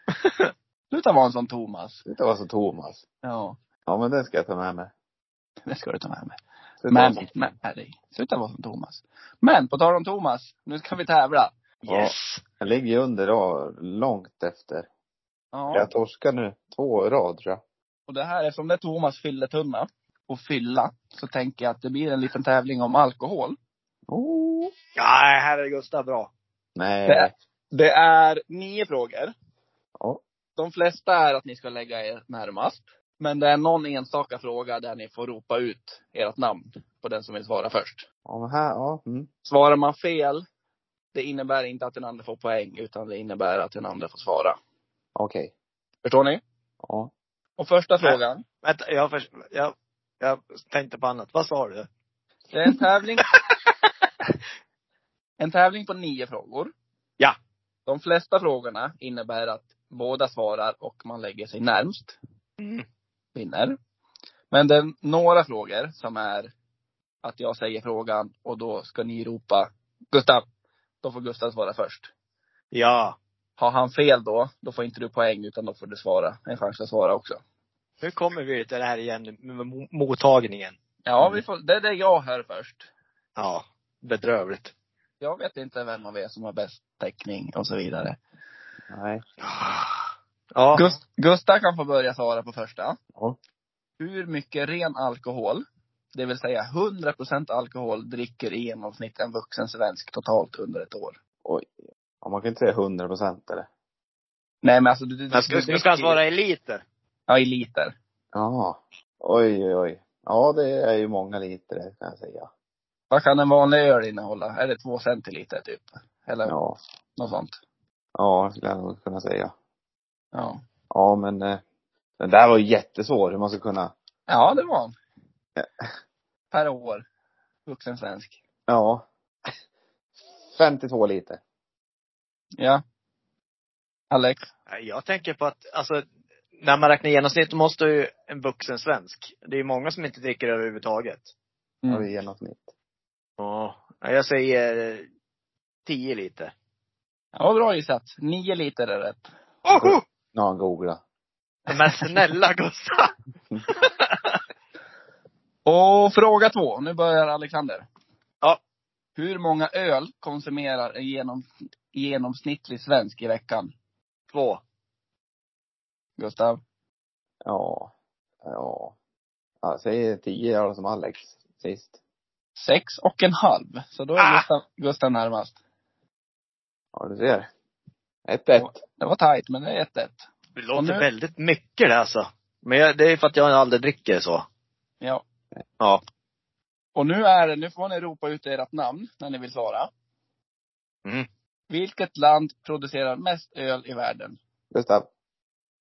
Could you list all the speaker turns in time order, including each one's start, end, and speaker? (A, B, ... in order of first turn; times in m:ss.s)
0:00.9-0:02.0 A
0:02.1-0:03.0 B
0:03.2-0:03.6 A
0:03.9-0:04.9 B
0:05.7-0:06.4 A
0:06.8-0:07.5 B
0:06.9-0:11.6 A
0:11.8-0:12.4 C
0:11.9-0:14.9 B
0:15.5-0:15.9 A
0:15.7-0:17.6 B
0:18.1-0:23.6 A
0:24.1-0:24.7 B
0:25.0-0:26.3 C
0:26.8-0:27.3 B
0:27.1-0:29.3 A
0:30.6-0:38.0 A
0:38.3-0:39.3 B
0:39.4-0:40.4 A
0:41.1-0:44.6 A
0:45.2-0:45.5 B
0:46.0-0:46.4 A
0:46.8-0:47.1 B
0:47.6-0:48.4 A
0:48.0-0:51.9 C
0:52.5-0:53.2 A
0:55.4-0:56.7 A
0:57.9-1:02.2 A
1:03.4-1:03.8 A
1:04.5-1:06.5 A
1:07.2-1:10.4 A
1:11.0-1:12.1 A
1:12.7-1:13.2 C
1:13.6-1:17.4 A
1:18.0-1:20.8 C
1:21.1-1:22.9 A
1:23.4-1:24.7 C
1:25.2-1:28.2 A
1:28.9-1:29.2 B
1:29.4-1:31.0 C
1:30.7-1:33.0 A
1:34.0-1:35.6 A
1:36.2-1:41.2 A
1:42.2-1:43.7 B
1:44.6-1:46.2 A
1:45.3-1:46.8 C
1:47.3-1:47.9 A
1:48.3-1:52.5 B
1:53.1-1:56.6 A
1:56.5-1:56.8 B
1:57.2-1:57.6 A
1:58.2-1:59.5 B
2:00.3-2:00.6 A
2:00.9-2:01.6 B
2:02.2-2:03.9 B
2:04.3-2:05.0 A
2:05.6-2:05.8 B
2:06.5-2:07.1 A
2:07.7-2:08.4 A
2:08.7-2:09.1 B
2:10.4-2:11.4 B
2:14.1-2:14.4 A
2:14.7-2:16.0 C
2:16.6-2:21.3 C
2:21.9-2:22.7 B
2:23.4-2:25.0 C
2:25.9-2:26.5 C
2:27.3-2:29.3 A
2:29.6-2:30.0 C
2:29.8-2:31.0 B
2:31.7-2:33.1 C
2:33.7-2:34.4 C
2:35.6-2:37.9 A
2:39.2-2:43.7 A
2:44.3-2:44.6 C
2:46.2-2:46.6 A
2:47.4-2:47.9 B
2:48.4-2:49.0 B
2:49.6-2:51.9 B
2:52.6-2:55.6 A
2:54.2-2:54.4 C
2:56.9-2:57.5 B
2:58.3-2:58.8 B
2:58.5-3:01.1 A
3:00.6-3:04.4 C
3:07.0-3:09.9 A
3:11.7-3:14.4 A
3:14.7-3:15.1 B